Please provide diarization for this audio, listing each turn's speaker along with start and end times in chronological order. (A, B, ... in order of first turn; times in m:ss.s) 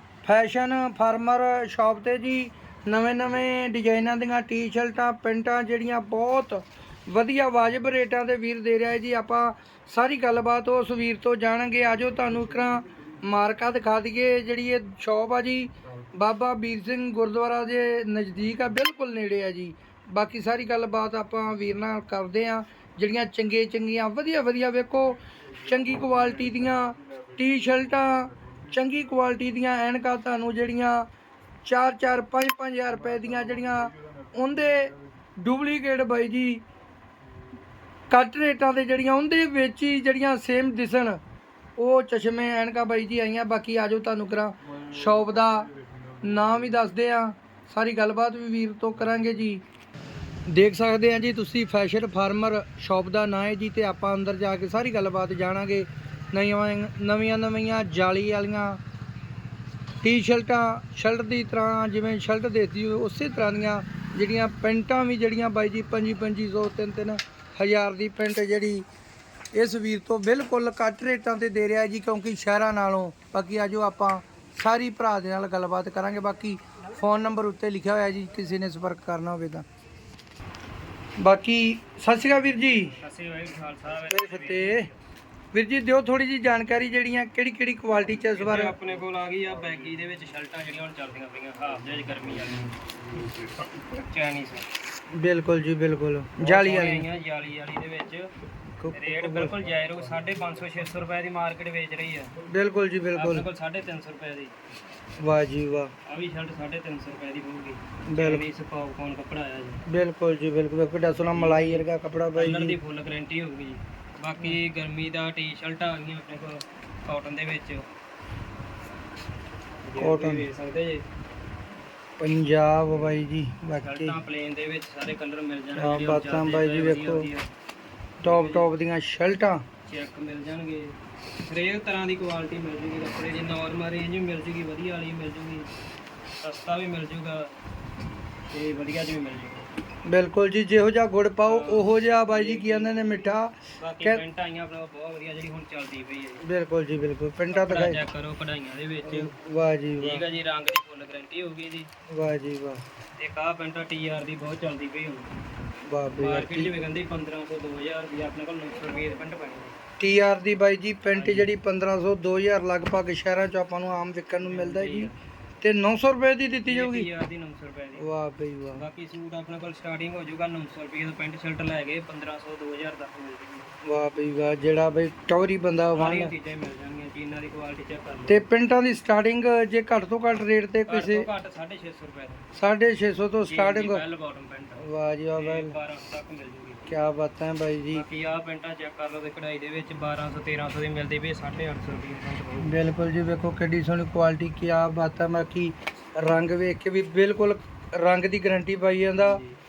0:00.2-0:31.1 A
0:31.6-0:36.6 A
0:38.1-0:41.2 A
0:41.8-0:49.6 A
0:50.5-0:58.8 A
1:00.0-1:08.9 A
1:09.5-1:19.6 A
1:21.2-1:23.0 A
1:22.8-1:24.9 B
1:24.1-1:24.9 A
1:25.5-1:28.8 A
1:28.3-1:32.8 B
1:34.0-1:34.7 B
1:35.1-1:37.1 A
1:36.4-1:38.3 B
1:38.8-1:39.5 A
1:38.9-1:42.3 B
1:42.5-1:43.5 A
1:43.1-1:44.6 B
1:45.2-1:45.9 A
1:46.0-1:49.8 B
1:48.1-1:48.4 A
1:49.9-1:52.8 A
1:51.2-1:57.9 B
1:59.8-2:01.0 B
2:00.0-2:00.5 A
2:02.2-2:04.2 A
2:03.8-2:07.5 B
2:05.8-2:07.3 A
2:08.2-2:08.7 B
2:08.2-2:09.6 A
2:09.8-2:15.7 B
2:16.4-2:17.5 B
2:18.5-2:19.7 B
2:20.1-2:24.2 A
2:21.4-2:26.4 B
2:26.4-2:28.0 A
2:27.5-2:29.4 B
2:29.0-2:30.2 A
2:30.0-2:31.9 B
2:32.1-2:32.8 A
2:33.2-2:35.3 B
2:35.9-2:36.7 A
2:36.2-2:39.8 B
2:40.0-2:47.1 A
2:41.1-2:41.5 B
2:44.4-2:45.2 B
2:46.7-2:48.1 B
2:48.0-2:48.8 A
2:48.7-2:53.8 B
2:53.8-2:56.3 A
2:55.9-2:58.4 B
2:58.3-3:01.3 A
3:00.9-3:02.5 B
3:02.6-3:04.0 A
3:03.5-3:06.9 B
3:04.8-3:05.8 A
3:06.9-3:08.0 A
3:07.9-3:12.8 B
3:12.6-3:19.4 A
3:19.2-3:19.6 B